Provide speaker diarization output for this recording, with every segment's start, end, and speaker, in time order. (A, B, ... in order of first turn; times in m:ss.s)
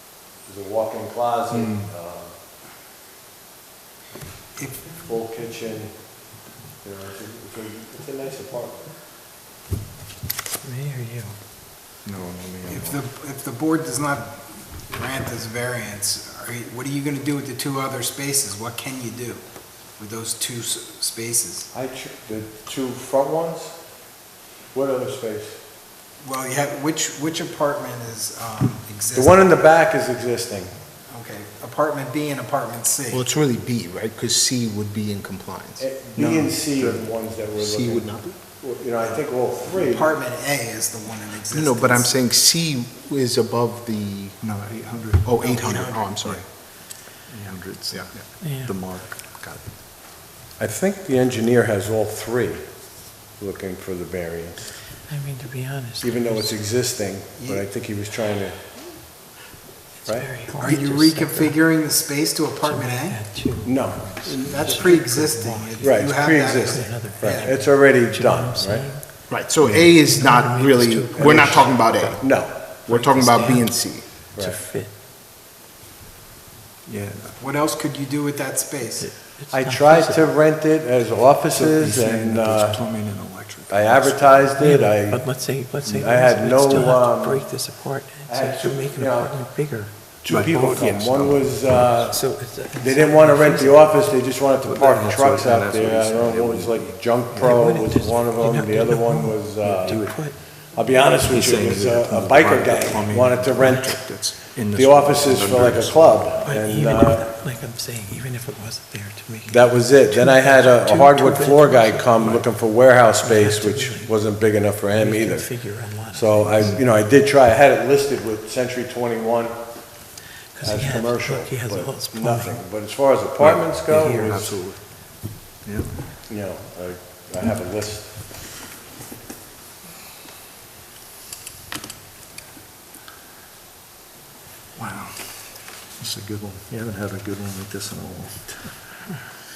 0:00.4-0:02.4 A
0:05.0-0:06.0 A
0:06.8-0:08.9 A
0:10.6-0:11.4 B
0:12.0-0:13.0 C
0:12.7-0:19.4 D
0:20.0-0:21.7 D
0:21.7-0:23.8 A
0:24.7-0:25.6 A
0:26.2-0:29.7 D
0:29.1-0:30.7 A
0:31.1-0:33.2 D
0:33.1-0:37.0 E
0:35.8-0:40.1 A
0:36.2-0:36.5 C
0:37.6-0:38.4 E
0:39.6-0:42.1 D
0:41.5-0:44.4 E
0:44.4-0:49.4 C
0:45.2-0:46.4 E
0:45.4-0:46.0 D
0:47.9-0:48.2 E
0:48.4-0:48.7 B
0:50.6-0:52.7 A
0:53.3-0:54.8 A
0:55.1-0:56.5 B
0:56.0-0:58.8 A
0:57.4-0:57.7 D
1:00.0-1:01.7 B
1:00.6-1:03.2 D
1:02.6-1:12.0 B
1:03.6-1:04.1 A
1:04.2-1:06.9 D
1:05.8-1:08.9 A
1:09.3-1:14.0 E
1:11.1-1:12.6 A
1:12.8-1:14.9 B
1:16.9-1:17.4 C
1:17.4-1:19.1 D
1:19.0-1:20.3 B
1:19.5-1:22.8 A
1:21.5-1:24.6 C
1:23.7-1:27.5 A
1:24.6-1:30.9 B
1:28.3-1:29.4 A
1:30.2-1:44.2 A
1:30.2-1:32.0 C
1:32.1-1:34.1 B
1:34.6-1:37.6 C
1:37.4-1:40.7 B
1:39.6-1:40.4 C
1:41.2-1:46.6 C
1:44.7-1:47.3 A
1:46.4-1:52.6 B
1:49.5-1:59.7 A
1:53.2-1:54.1 B
1:54.9-1:56.8 B
2:00.5-2:02.6 B
2:00.6-2:04.5 A
2:03.4-2:05.1 C
2:03.9-2:04.5 B
2:05.6-2:05.9 C
2:06.3-2:08.2 A
2:14.8-2:19.3 C